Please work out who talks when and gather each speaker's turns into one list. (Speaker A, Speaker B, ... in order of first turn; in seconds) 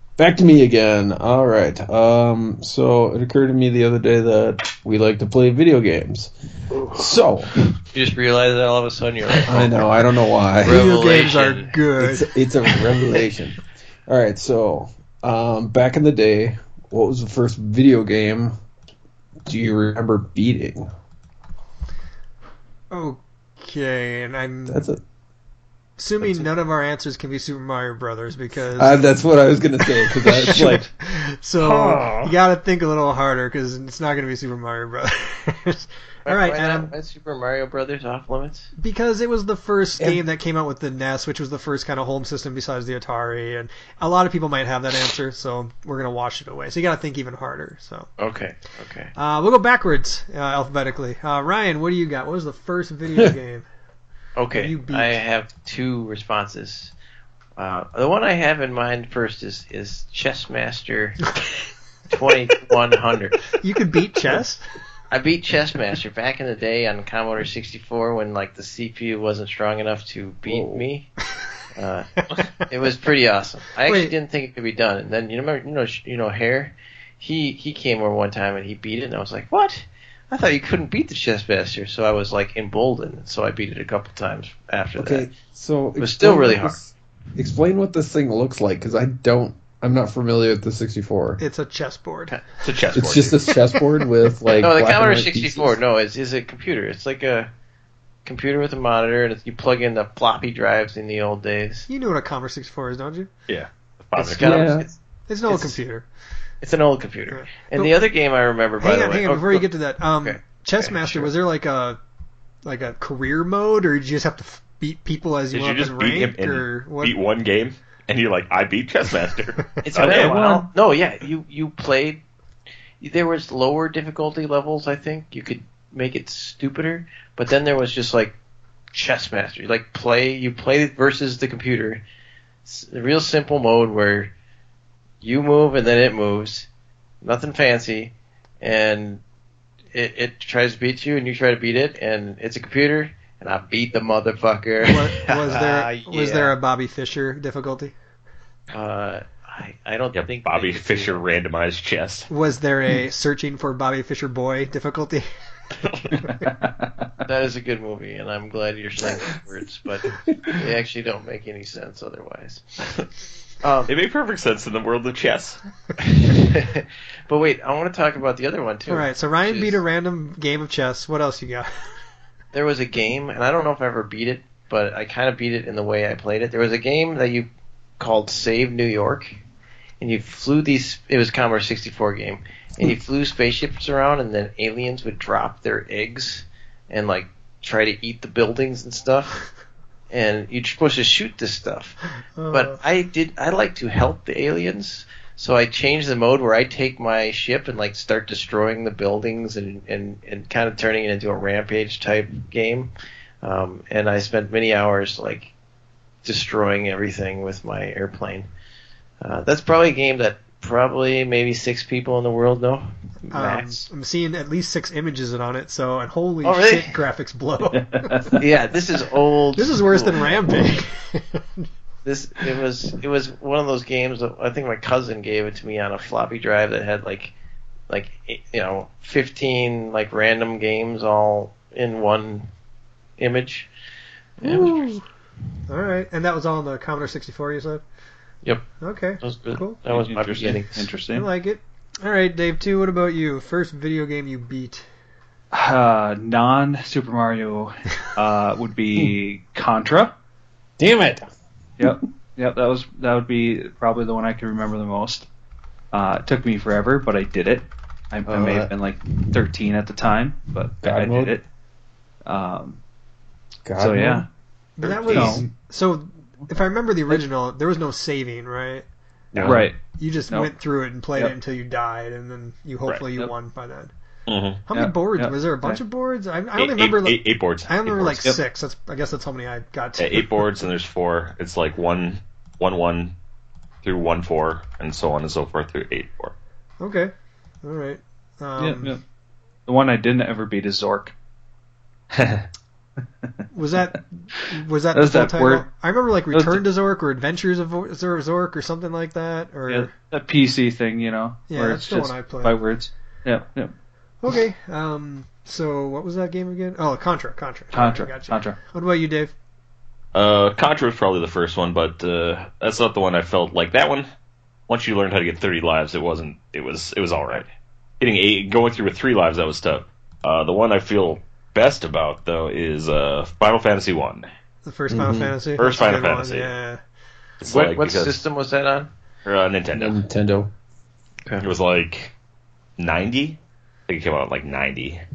Speaker A: 0.2-6.3, 6.9-7.5, 9.5-10.9, 12.0-18.5, 19.5-20.9, 24.7-25.0, 26.2-26.5, 28.8-30.9, 31.6-32.4, 70.5-70.8, 85.0-91.4, 92.9-95.8, 104.4-104.9, 160.3-160.6, 234.4-234.9, 250.8-251.3, 258.3-258.7, 260.8-261.4, 263.7-264.2, 264.9-265.5, 269.3-269.7, 324.9-325.4, 329.7-330.5
Speaker B: 7.9-9.8, 10.6-11.8, 36.3-38.7, 48.2-49.1, 54.4-56.9, 57.6-61.3, 62.1-63.5, 65.1-71.1, 71.8-85.3, 86.0-86.8, 94.6-97.5, 98.2-101.9, 104.2-104.9, 105.5-105.8, 106.6-109.7, 110.2-111.3, 119.8-122.2, 123.0-128.3, 128.9-132.0, 132.7-134.3, 135.2-136.7, 137.2-139.2, 139.9-146.5, 148.7-151.3, 157.2-162.7, 163.6-163.9, 166.0-169.8, 172.5-177.5, 178.0-179.3, 180.0-189.4, 190.1-202.9, 203.4-205.5, 206.2-208.5, 209.2-213.8, 216.4-217.0, 218.4-220.4, 222.1-227.3, 227.9-232.5, 233.2-233.7, 234.4-234.9, 239.2-240.9, 327.5-328.9
Speaker C: 10.6-12.3, 22.9-24.8, 26.0-29.0, 30.0-36.9, 38.8-48.1, 49.2-53.7, 54.5-55.2, 63.6-64.6, 73.9-74.1, 91.4-92.4, 101.9-103.3, 105.3-106.1, 107.3-108.0, 108.8-112.0, 112.7-117.2, 144.9-147.9, 152.3-155.2, 168.9-171.7, 192.4-192.8, 213.3-218.1, 219.6-221.7, 235.7-237.8, 238.8-239.8, 241.1-244.9, 264.8-268.9, 270.0-273.9, 274.7-280.3, 286.8-287.1, 287.6-289.0, 293.5-299.9, 301.5-302.6, 304.2-309.3, 324.6-326.8
Speaker D: 92.6-93.4, 103.5-104.4, 115.5-120.4, 150.1-152.3, 155.9-156.1, 163.9-165.6, 264.8-265.3, 274.3-274.6, 276.6-278.3, 280.0-283.1, 283.8-286.3, 310.1-314.1, 314.7-317.4, 318.0-324.3, 325.6-326.5, 327.4-328.2, 329.3-330.0, 331.4-332.1, 332.8-335.0
Speaker E: 120.0-120.7, 156.2-157.1, 217.7-218.5, 239.9-241.3, 245.5-250.1, 251.8-255.3, 255.9-261.4, 262.2-262.8, 263.8-264.3, 265.1-265.4, 269.4-270.5, 274.7-275.8, 288.6-289.0, 289.7-291.1, 294.9-295.7, 296.3-296.6, 299.7-303.7, 307.7-308.6